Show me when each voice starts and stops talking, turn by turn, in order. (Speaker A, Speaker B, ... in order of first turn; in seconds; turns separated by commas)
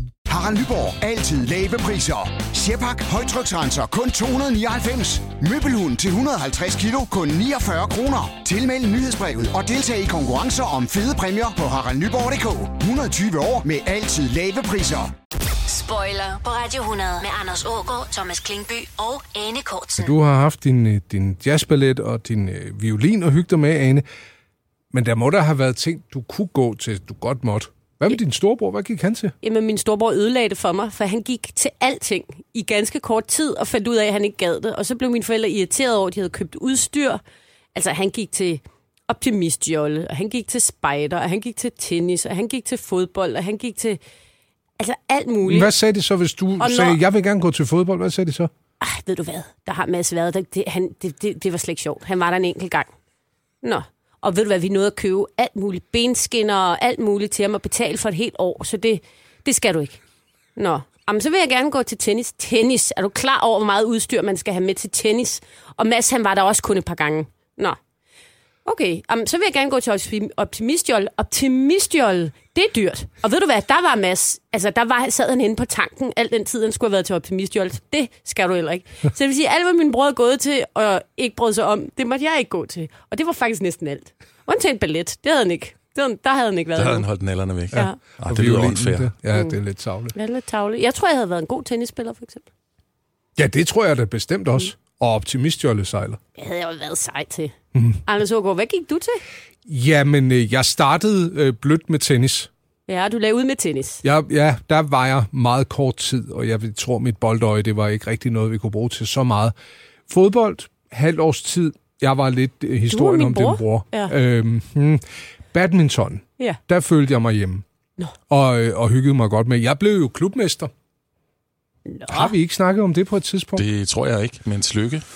Speaker A: 0.2-15.1, Speaker B: 15.7-20.1, Speaker C: 20.0-24.0, Speaker C: 24.9-29.3, Speaker D: 29.4-37.2, Speaker D: 37.7-44.0, Speaker D: 44.8-45.7, Speaker C: 45.4-48.5, Speaker D: 46.6-47.0, Speaker D: 48.8-52.9, Speaker D: 53.6-60.0, Speaker D: 60.5-67.8, Speaker D: 68.6-87.0, Speaker E: 86.7-89.1, Speaker D: 87.7-88.0, Speaker C: 87.7-90.1, Speaker D: 90.1-92.5, Speaker C: 93.3-96.2, Speaker D: 96.3-97.5, Speaker C: 97.7-98.0, Speaker D: 98.0-99.2, Speaker C: 99.7-102.5, Speaker D: 102.9-104.0, Speaker C: 104.0-109.5, Speaker C: 110.1-117.6, Speaker D: 112.9-114.1, Speaker C: 118.3-120.7, Speaker D: 121.9-122.3, Speaker C: 122.1-123.6, Speaker E: 123.5-125.0